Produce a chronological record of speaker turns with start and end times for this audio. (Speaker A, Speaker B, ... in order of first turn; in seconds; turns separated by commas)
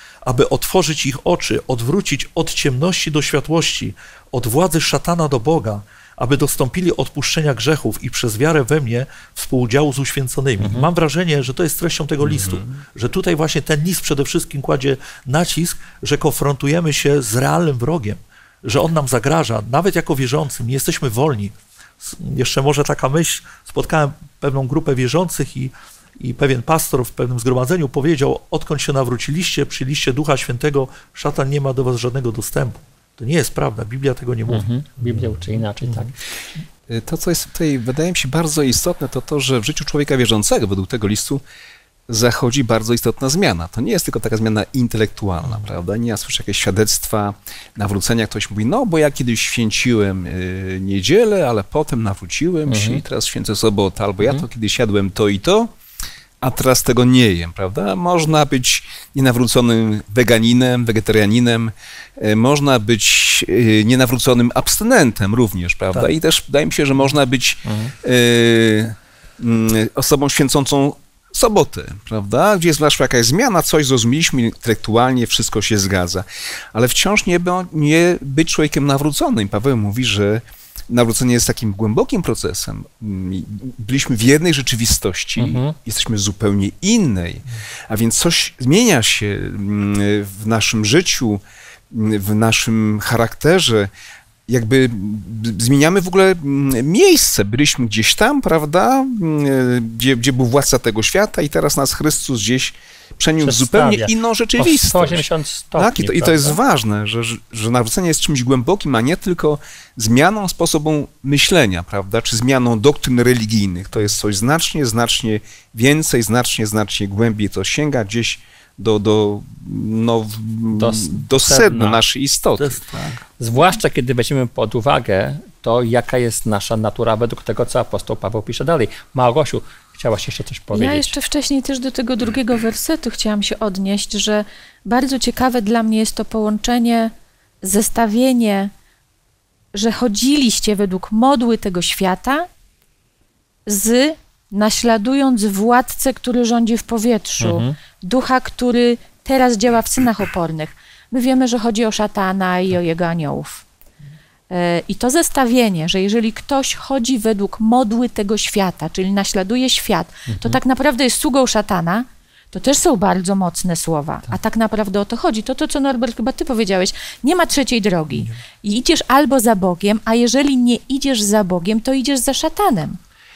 Speaker A: 0.2-35.2, Speaker B: 10.6-10.9, Speaker C: 12.2-12.8, Speaker B: 34.5-36.1, Speaker C: 36.9-41.4, Speaker C: 42.1-55.7, Speaker B: 52.7-53.0, Speaker C: 56.4-93.9, Speaker B: 67.6-67.9, Speaker B: 85.4-85.8, Speaker C: 94.5-105.2, Speaker B: 103.4-106.6, Speaker C: 105.8-122.8, Speaker B: 120.7-122.0, Speaker A: 122.6-123.2, Speaker B: 123.4-131.2, Speaker D: 130.7-138.7, Speaker D: 139.7-142.5, Speaker D: 143.7-153.6, Speaker B: 147.4-147.8, Speaker D: 154.5-173.0, Speaker B: 160.3-160.6